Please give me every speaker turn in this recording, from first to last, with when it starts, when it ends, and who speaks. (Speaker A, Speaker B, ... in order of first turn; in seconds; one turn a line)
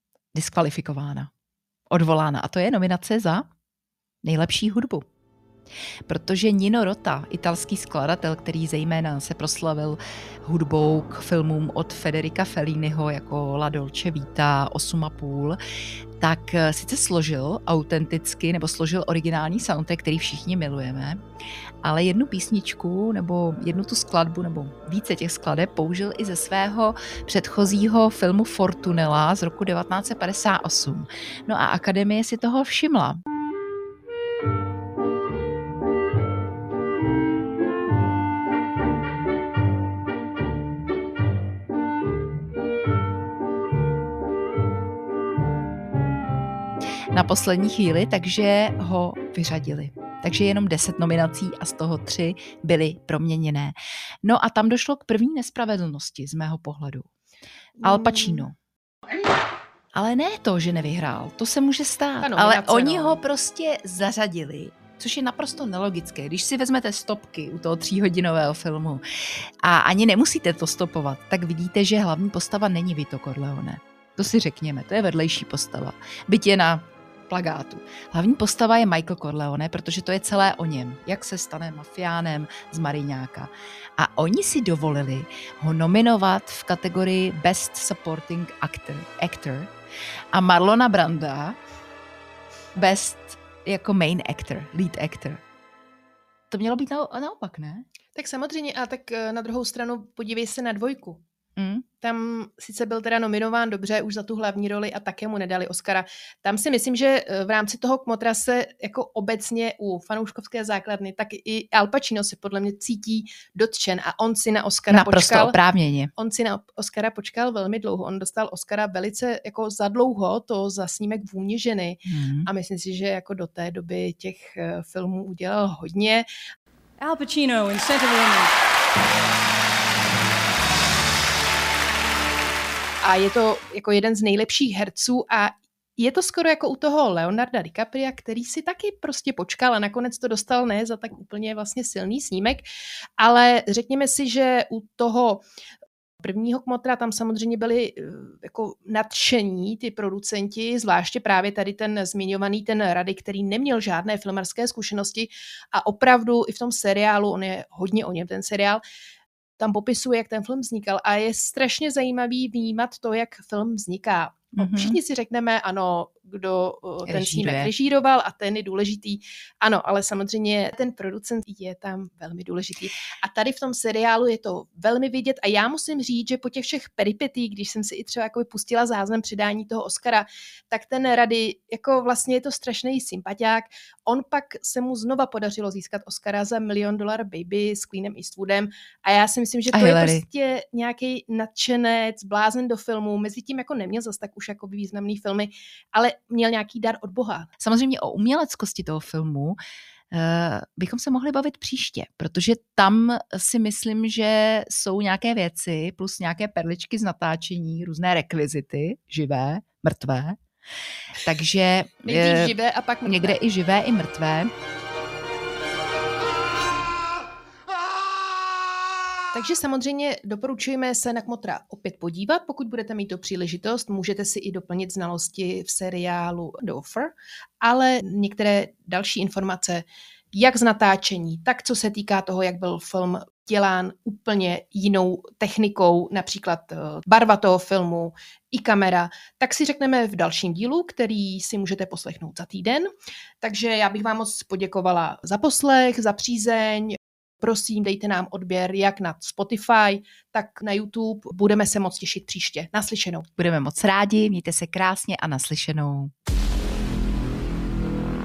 Speaker A: 0.3-1.3
Speaker A: 1.9-3.5
Speaker A: 4.2-5.0
Speaker A: 6.1-15.6
Speaker A: 16.2-21.2
Speaker A: 21.8-33.2
Speaker A: 47.1-57.1
Speaker B: 57.8-58.5
Speaker A: 57.8-58.5
Speaker A: 60.0-69.0
Speaker B: 62.2-63.2
Speaker A: 69.6-89.7
Speaker A: 90.3-91.6
Speaker A: 92.8-95.4
Speaker A: 96.5-97.8
Speaker B: 98.2-101.2
Speaker A: 101.6-101.8
Speaker B: 102.0-115.6
Speaker A: 114.9-116.1
Speaker B: 116.2-126.3
Speaker A: 122.1-122.5
Speaker B: 127.6-128.4
Speaker B: 133.0-142.7
Speaker B: 143.2-145.4
Speaker B: 146.2-158.8
Speaker B: 159.6-197.5
Speaker A: 164.6-165.0
Speaker A: 167.1-167.7
Speaker A: 189.7-190.2
Speaker A: 197.6-199.6
Speaker A: 200.1-210.4
Speaker A: 211.2-212.5
Speaker B: 212.1-213.4
Speaker A: 213.1-214.5
Speaker B: 219.3-253.3
Speaker A: 253.4-256.1